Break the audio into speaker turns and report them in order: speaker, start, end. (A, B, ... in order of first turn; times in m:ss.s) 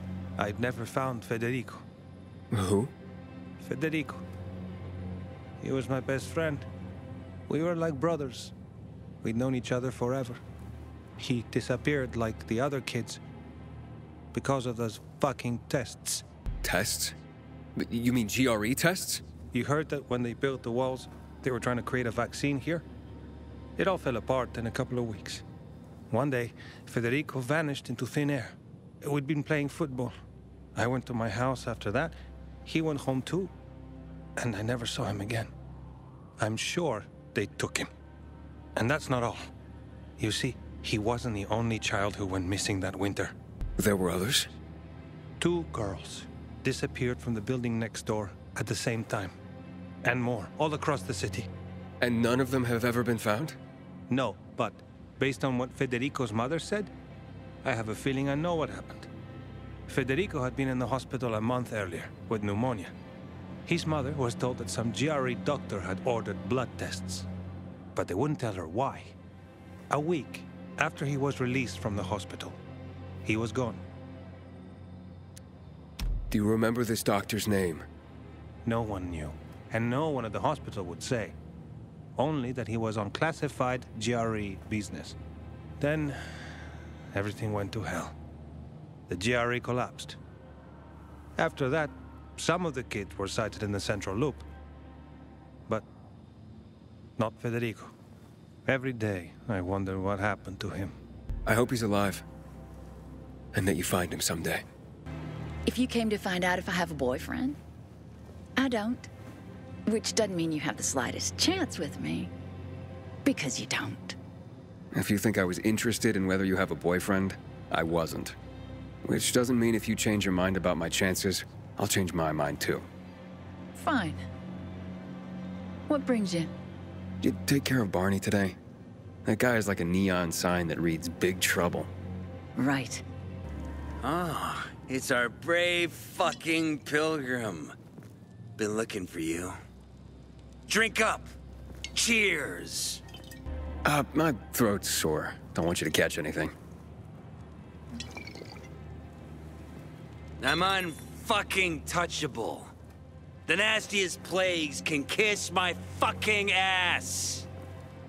0:00.4-0:01.8 A
0:02.5-0:02.9 B
0:03.6-0:04.2 A
0:05.6-0:06.7 A
0:07.5-0:08.5 A
0:09.2-0:10.4 A
0:11.2-0:13.2 A
0:14.3-0:16.2 A
0:16.6-0:17.2 B
0:17.8-0:19.2 B
0:19.5-0:22.8 A
0:23.8-0:25.4 A
0:26.1-0:30.2 A
0:30.8-0:32.1 A
0:32.6-0:33.5 A
0:34.4-0:35.5 A
0:36.4-0:37.9 A
0:38.8-0:39.5 A
0:40.2-0:43.3 A
0:43.8-0:44.5 B
0:45.4-0:49.4 A
0:50.0-0:51.5 A
0:52.0-0:53.6 B
0:54.1-0:56.9 A
0:57.6-0:59.1 A
0:59.9-1:02.9 A
1:03.6-1:07.2 A
1:08.0-1:09.1 A
1:09.9-1:12.6 A
1:13.2-1:13.8 A
1:16.3-1:17.9 B
1:18.6-1:21.4 A
1:22.2-1:25.2 A
1:25.8-1:28.2 A
1:29.1-1:30.2 A
1:31.4-1:34.5 A
1:37.2-1:37.9 A
1:38.7-1:40.9 A
1:41.5-1:42.2 B
1:43.5-1:44.6 B
1:45.7-1:47.6 C
1:48.6-1:49.1 C
1:49.9-1:52.3 C
1:53.2-1:54.2 C
1:54.9-1:58.4 B
1:59.0-2:02.9 B
2:03.8-2:04.2 C
2:05.9-2:06.5 C
2:07.2-2:08.6 B
2:09.2-2:11.9 B
2:12.6-2:13.0 C
2:14.0-2:17.8 D
2:18.6-2:19.6 D
2:20.7-2:21.2 D
2:21.9-2:23.0 D
2:23.8-2:26.6 B
2:30.4-2:32.7 D
2:33.5-2:37.5 D